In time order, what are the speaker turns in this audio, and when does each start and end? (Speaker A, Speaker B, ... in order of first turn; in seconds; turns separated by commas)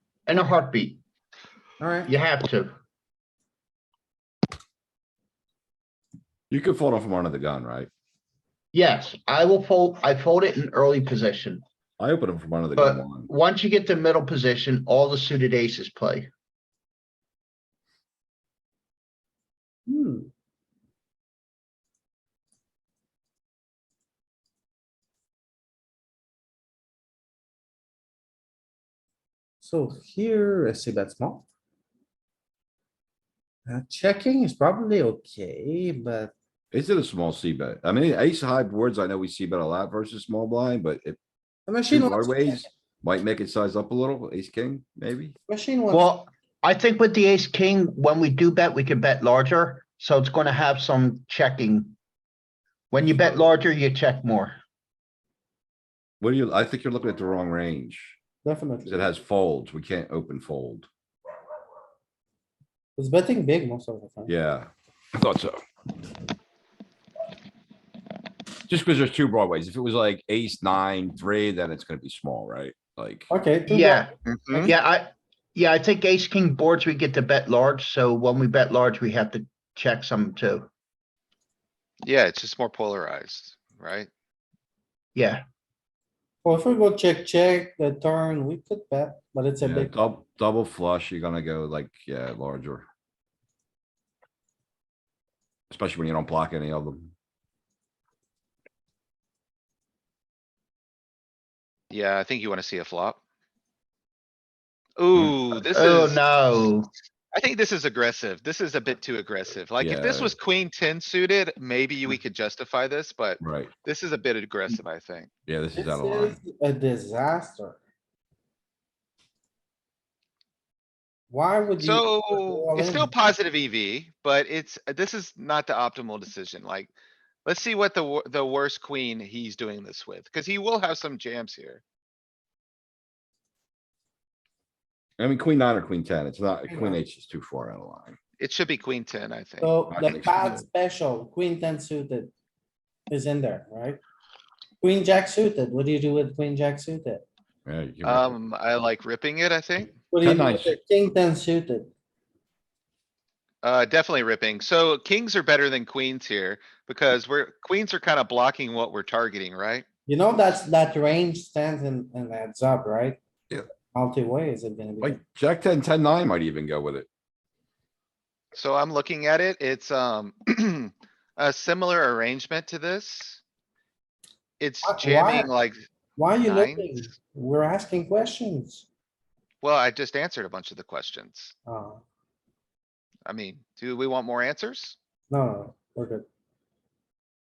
Speaker A: 0.3-1.0, Speaker B: 1.8-2.1, Speaker A: 2.1-2.7, Speaker C: 6.5-7.9, Speaker A: 8.7-11.6, Speaker C: 12.0-13.3, Speaker A: 12.8-16.3, Speaker B: 19.9-20.3, Speaker B: 29.6-31.5, Speaker B: 33.7-36.3, Speaker C: 36.7-41.2, Speaker B: 41.7-42.7, Speaker C: 41.9-45.4, Speaker B: 45.5-46.1, Speaker A: 45.9-52.0, Speaker A: 52.9-54.6, Speaker C: 56.2-58.2, Speaker B: 58.4-59.1, Speaker C: 58.9-60.9, Speaker B: 63.0-64.3, Speaker C: 64.3-65.6, Speaker C: 68.7-73.3, Speaker B: 73.3-74.0, Speaker A: 73.7-80.7, Speaker D: 74.3-74.7, Speaker D: 82.0-84.1, Speaker A: 85.2-85.4, Speaker B: 86.4-89.9, Speaker C: 89.6-92.9, Speaker C: 95.7-97.1, Speaker D: 101.9-103.2, Speaker D: 105.0-106.2, Speaker A: 105.5-106.9, Speaker D: 107.3-115.3, Speaker C: 109.8-110.3, Speaker C: 113.4-113.7, Speaker C: 115.5-116.4, Speaker B: 115.8-117.8, Speaker B: 121.3-123.1, Speaker D: 121.8-126.9, Speaker D: 127.5-131.8, Speaker C: 135.2-138.2, Speaker B: 136.7-137.0, Speaker D: 138.4-139.8, Speaker B: 139.6-142.3, Speaker C: 139.9-140.7, Speaker B: 143.1-144.0, Speaker B: 144.8-147.2, Speaker C: 147.7-148.4, Speaker D: 148.0-150.0, Speaker B: 150.1-151.9, Speaker C: 150.2-150.8, Speaker D: 153.6-159.8, Speaker B: 160.1-163.2, Speaker B: 163.9-165.2, Speaker C: 165.0-167.1, Speaker D: 168.6-173.4, Speaker D: 174.6-175.8, Speaker B: 174.8-175.5, Speaker B: 176.2-178.9, Speaker D: 176.4-176.9, Speaker D: 179.6-181.5, Speaker B: 181.7-182.0, Speaker D: 183.3-185.0, Speaker B: 185.3-186.3